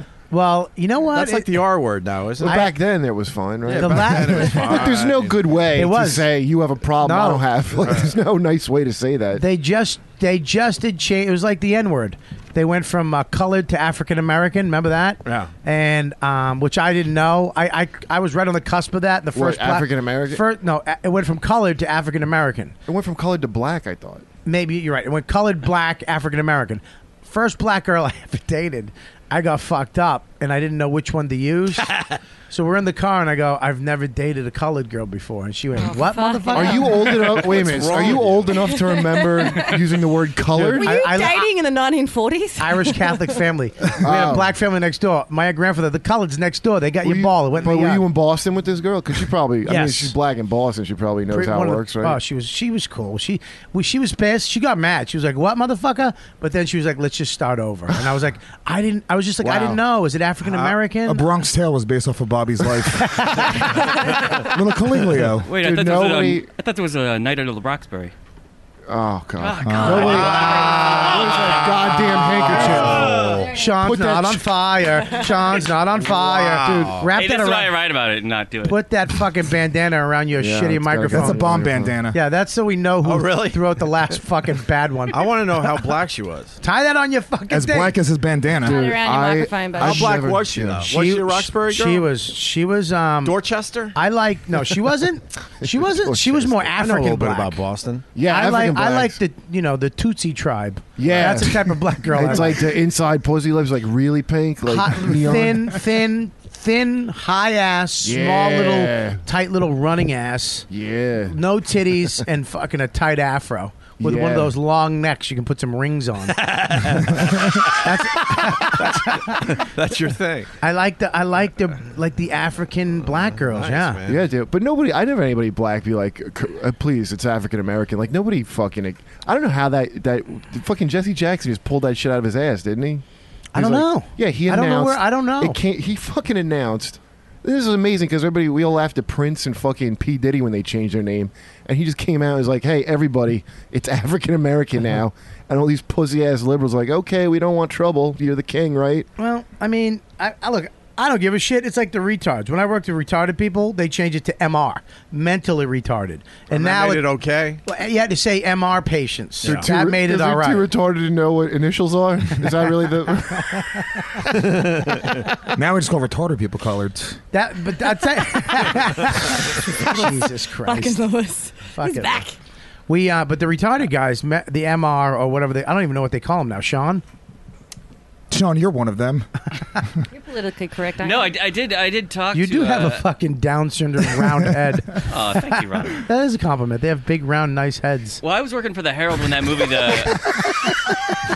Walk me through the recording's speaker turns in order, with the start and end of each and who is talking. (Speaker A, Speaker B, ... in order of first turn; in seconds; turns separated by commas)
Speaker A: 0.3-1.5, Speaker B: 1.1-2.7, Speaker C: 2.4-9.4, Speaker A: 2.4-2.7, Speaker B: 3.6-5.6, Speaker A: 3.7-4.9, Speaker A: 5.8-6.3, Speaker A: 7.0-7.5, Speaker B: 7.8-8.1, Speaker A: 9.4-22.8, Speaker B: 15.2-15.5, Speaker C: 19.3-20.4, Speaker C: 22.9-24.2, Speaker A: 24.4-31.9, Speaker A: 32.5-37.1, Speaker D: 35.8-37.2, Speaker C: 36.5-41.0, Speaker B: 37.1-38.6, Speaker D: 38.8-39.8, Speaker D: 40.7-43.4, Speaker A: 40.8-41.5, Speaker A: 42.6-48.0, Speaker C: 44.0-44.5, Speaker C: 47.0-52.2, Speaker A: 49.7-50.1, Speaker A: 51.3-61.3, Speaker C: 59.4-59.8, Speaker E: 61.1-65.5, Speaker A: 63.0-63.7, Speaker F: 65.4-68.1, Speaker C: 65.5-66.5, Speaker C: 68.9-74.5, Speaker F: 69.4-72.8, Speaker E: 69.6-70.2, Speaker B: 70.2-70.7, Speaker A: 70.3-71.2, Speaker B: 72.5-73.5, Speaker A: 72.6-77.8, Speaker B: 76.0-77.1, Speaker F: 77.2-78.8, Speaker A: 78.6-81.5, Speaker C: 80.4-82.0, Speaker E: 81.1-82.2, Speaker A: 82.1-85.2, Speaker B: 83.0-83.8, Speaker B: 85.1-86.6, Speaker A: 86.6-88.0, Speaker E: 87.5-88.9, Speaker C: 88.6-90.9, Speaker D: 88.7-90.1, Speaker B: 89.8-92.1, Speaker A: 90.9-93.4, Speaker B: 93.2-94.0, Speaker A: 93.9-97.6, Speaker C: 95.6-96.7, Speaker B: 96.8-98.1, Speaker C: 98.1-99.2, Speaker A: 98.2-102.7, Speaker C: 101.0-105.8, Speaker A: 104.7-110.7, Speaker C: 108.0-109.2, Speaker C: 110.7-111.4, Speaker A: 111.3-116.4, Speaker C: 114.0-114.5, Speaker B: 116.3-120.5, Speaker A: 117.6-119.6, Speaker A: 120.6-124.0, Speaker B: 123.3-124.2, Speaker C: 124.1-133.0, Speaker A: 133.5-135.6, Speaker C: 133.6-149.1, Speaker A: 149.2-157.1, Speaker B: 156.5-157.6, Speaker A: 157.7-160.7, Speaker B: 159.4-159.7, Speaker C: 159.4-164.0, Speaker B: 164.4-165.2, Speaker E: 165.5-167.2, Speaker A: 167.3-171.0, Speaker D: 169.8-172.4, Speaker A: 171.8-172.2, Speaker A: 172.9-177.0, Speaker E: 178.3-179.8, Speaker D: 180.1-181.4, Speaker F: 181.0-183.1, Speaker A: 182.3-188.2, Speaker F: 185.1-186.0, Speaker F: 188.2-190.4, Speaker A: 190.1-191.2